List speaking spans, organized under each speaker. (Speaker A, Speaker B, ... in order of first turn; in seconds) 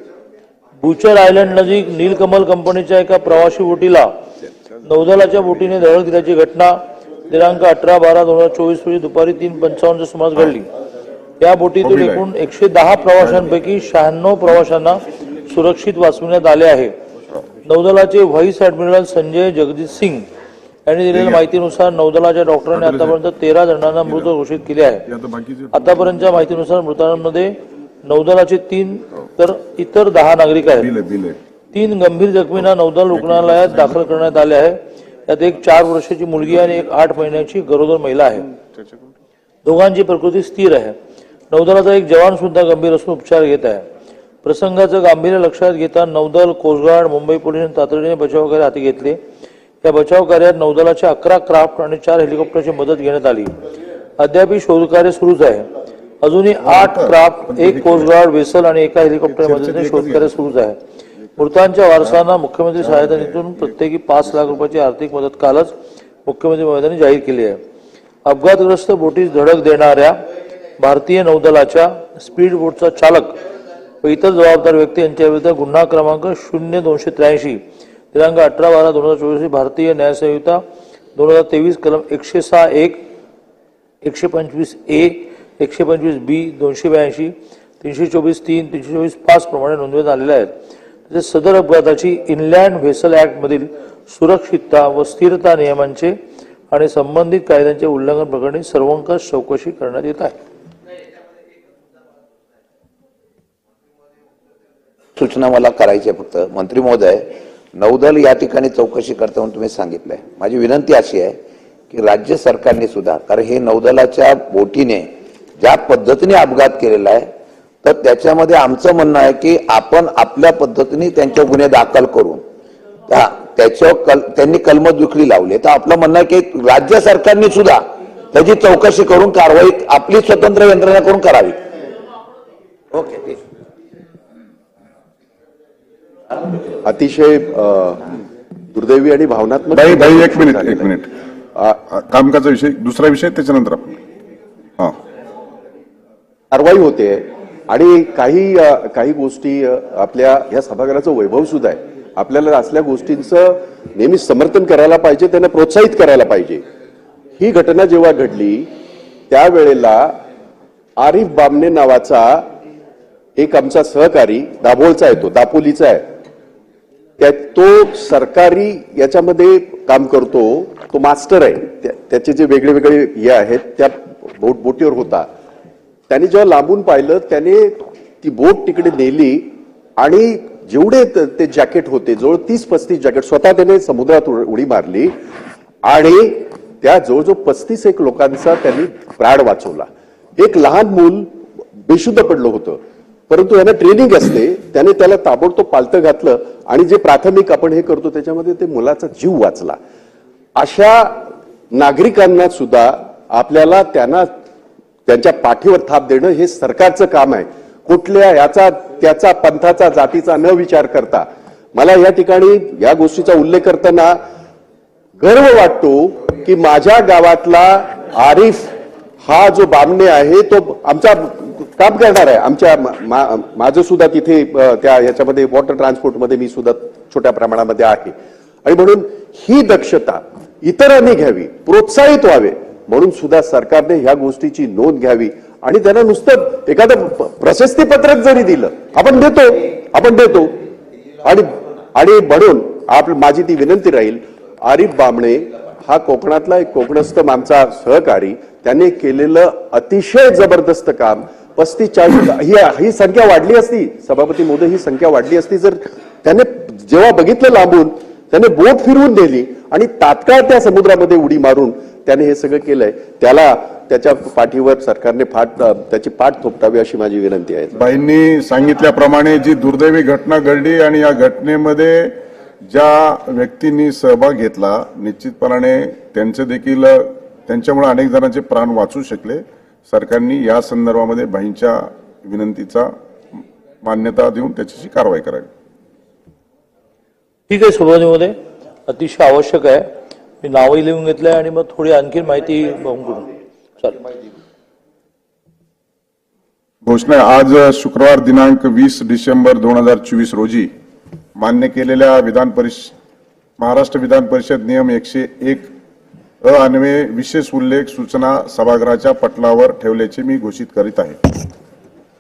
Speaker A: 0.8-4.1, 4.8-10.7, 11.4-16.9, 17.6-20.3, 20.9-25.1, 25.7-30.9, 31.7-38.5, 39.6-41.0, 41.5-43.9, 44.4-49.2, 49.8-53.6, 54.2-55.7, 56.2-60.8, 61.4-65.7, 66.2-67.6, 68.2-70.2, 70.8-73.4, 74.0-80.6, 81.2-83.0, 84.0-90.5, 91.1-96.2, 96.7-100.4, 287.5-294.0
Speaker B: 11.8-12.2, 22.8-23.1, 25.1-25.7, 30.8-31.4, 56.6-58.1, 59.3-60.2, 62.9-63.3, 139.7-141.1, 141.9-144.0, 267.8-282.9, 283.8-285.5, 296.8-300.7, 301.4-302.9, 303.6-305.7, 306.4-311.3
Speaker C: 105.2-111.4, 111.9-117.3, 117.8-122.4, 123.1-131.6, 132.9-133.4
Speaker D: 136.8-138.1, 138.7-140.9, 146.5-156.6, 157.4-158.7, 159.3-160.2, 161.0-162.5, 163.4-166.1, 167.2-175.3, 176.1-185.1, 185.8-199.8, 200.6-204.3, 205.1-214.2, 215.2-218.7, 219.2-240.6, 241.2-267.8